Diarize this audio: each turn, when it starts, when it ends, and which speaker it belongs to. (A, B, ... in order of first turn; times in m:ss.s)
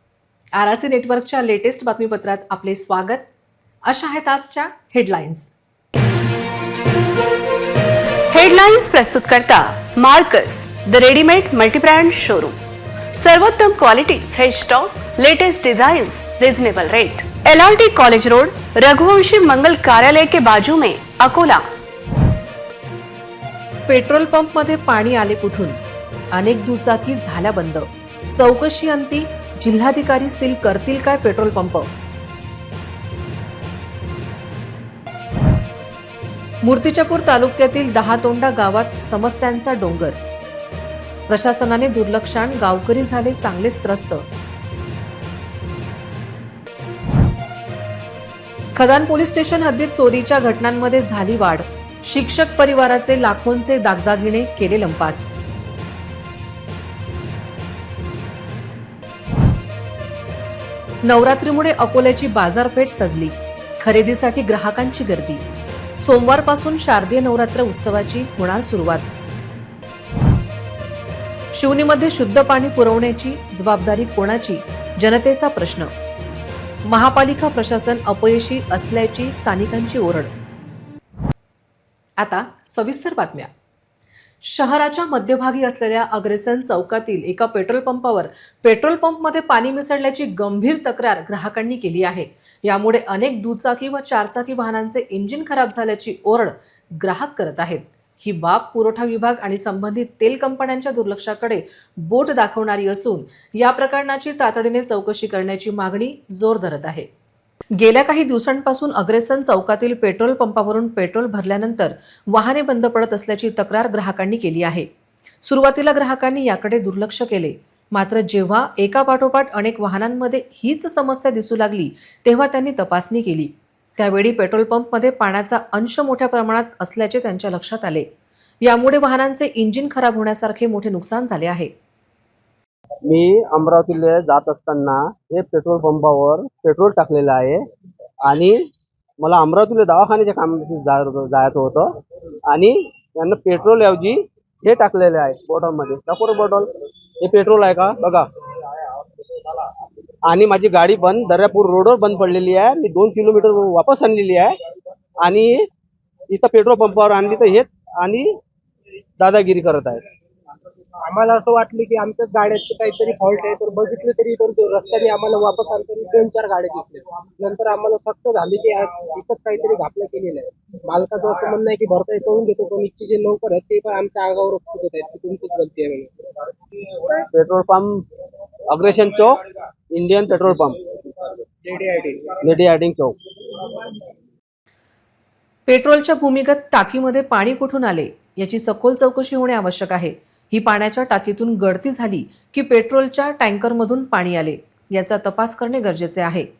0:00.6-0:03.2 A
0:03.9-0:05.5 A
0:08.3-0:12.6 B
0:13.1-0:21.7 B
0:23.9-0:25.8 A
0:26.3-0:31.9 A
0:36.6-0:40.2 A
0:41.3-0:44.2 A
0:48.8-0:55.3 A
1:01.0-1:05.4 A
1:06.0-1:09.1 A
1:11.5-1:15.9 A
1:16.9-1:20.3 A
1:22.2-1:23.5 A
1:24.4-1:47.1 A
1:47.7-1:54.9 A
1:55.4-2:08.1 A
2:08.6-2:11.7 A
2:13.1-2:17.6 C
2:18.3-2:18.6 C
2:19.2-2:21.9 C
2:22.5-2:26.7 C
2:27.2-2:28.2 C
2:30.3-2:34.5 C
2:35.2-2:35.7 C
2:36.3-2:38.3 C
2:39.2-2:40.0 C
2:41.1-2:56.1 D
2:57.3-2:58.0 C
2:58.7-2:59.4 C
2:59.9-3:00.8 C
3:01.6-3:02.3 D
3:02.4-3:03.2 C
3:05.7-3:16.5 A